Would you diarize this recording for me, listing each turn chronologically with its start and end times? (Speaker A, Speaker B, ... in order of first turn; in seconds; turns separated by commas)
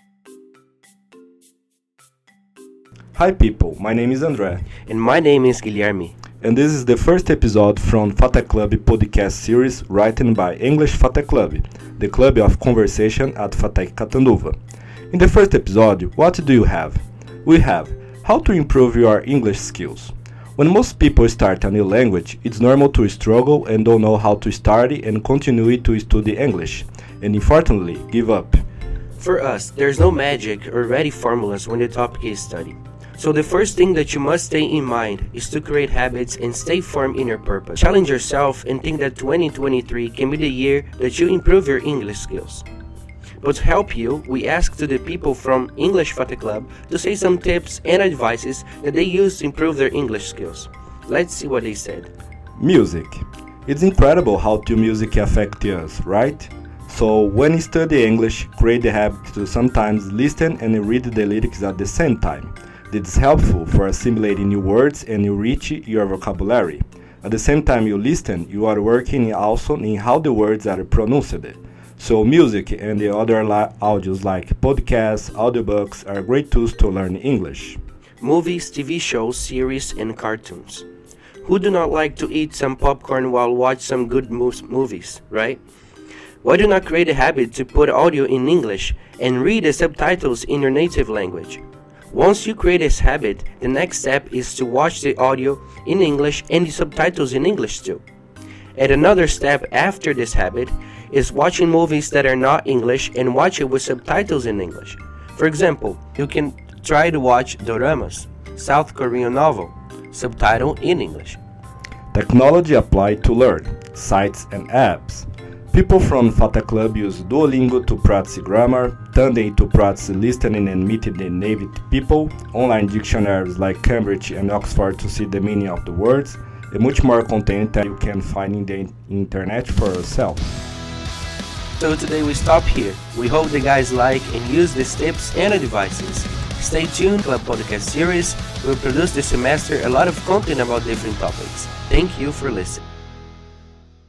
Speaker A: 3.1-4.7, Speaker B: 4.8-6.1, Speaker A: 6.4-14.6, Speaker A: 15.1-28.6, Speaker B: 29.2-42.6, Speaker B: 43.4-52.1, Speaker A: 52.6-77.8, Speaker B: 78.2-80.8, Speaker B: 81.4-85.6, Speaker B: 86.4-98.0, Speaker B: 98.8-111.4, Speaker A: 112.1-130.6, Speaker B: 131.8-142.8